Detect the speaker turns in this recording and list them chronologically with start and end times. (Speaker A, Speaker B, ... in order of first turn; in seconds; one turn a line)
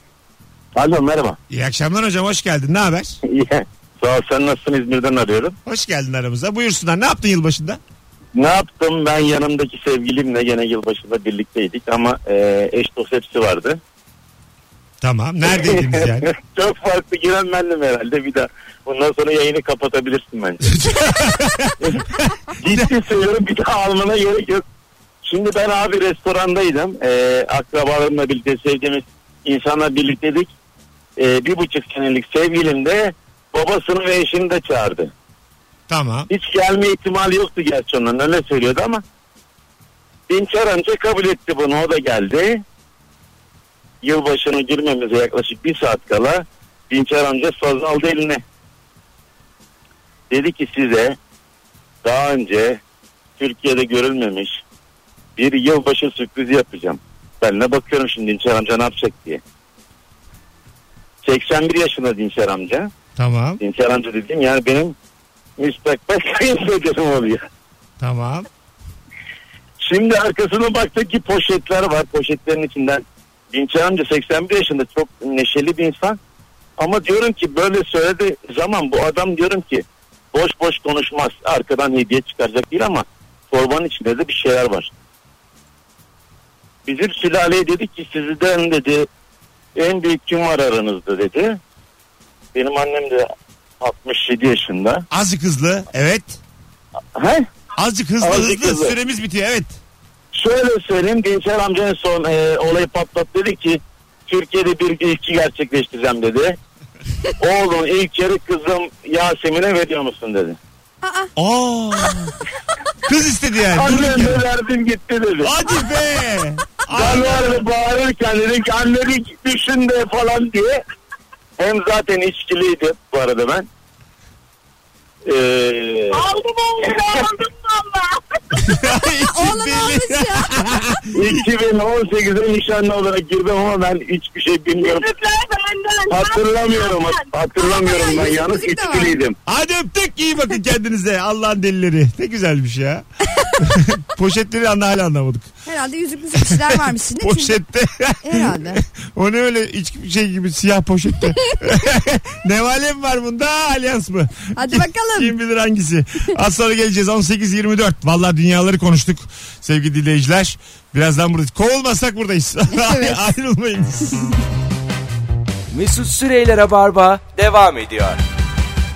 Speaker A: 0.8-1.4
Speaker B: 1.5-3.2
Speaker A: 3.3-5.6
Speaker B: 5.7-7.8
Speaker A: 8.3-13.8
Speaker B: 15.0-16.3
Speaker A: 15.5-20.8
Speaker B: 20.6-22.9
Speaker A: 22.6-24.6
Speaker A: 25.2-30.5
Speaker A: 31.2-35.1
Speaker B: 35.9-36.3
Speaker A: 36.3-39.0
Speaker A: 40.3-42.6
Speaker A: 44.0-48.4
Speaker A: 50.3-51.2
Speaker A: 52.0-52.8
Speaker A: 53.4-54.6
Speaker A: 55.4-59.4
Speaker A: 61.2-62.9
Speaker B: 63.2-63.6
Speaker A: 63.6-65.0
Speaker A: 65.6-67.5
Speaker B: 68.0-68.5
Speaker A: 69.8-76.2
Speaker A: 76.8-84.9
Speaker A: 86.9-89.1
Speaker A: 89.8-91.6
Speaker A: 92.5-93.3
Speaker A: 93.8-95.0
Speaker B: 95.1-96.4
Speaker A: 97.2-97.5
Speaker B: 97.8-99.8
Speaker A: 98.2-98.9
Speaker A: 100.3-106.6
Speaker A: 107.4-110.6
Speaker C: 111.0-111.3
Speaker B: 111.4-112.3
Speaker B: 113.0-114.5
Speaker A: 113.8-115.6
Speaker B: 115.4-117.6
Speaker A: 116.9-120.8
Speaker A: 121.6-123.7
Speaker A: 125.2-126.3
Speaker D: 126.1-128.7
Speaker B: 128.5-131.5
Speaker C: 129.2-130.8
Speaker A: 131.1-135.1
Speaker D: 134.8-137.2
Speaker A: 136.1-139.4
Speaker C: 137.6-139.2
Speaker B: 139.5-143.0
Speaker B: 143.6-145.5
Speaker C: 145.7-147.6
Speaker B: 146.4-164.3
Speaker C: 148.2-148.8
Speaker C: 154.6-155.3
Speaker C: 162.7-163.2
Speaker E: 165.7-168.2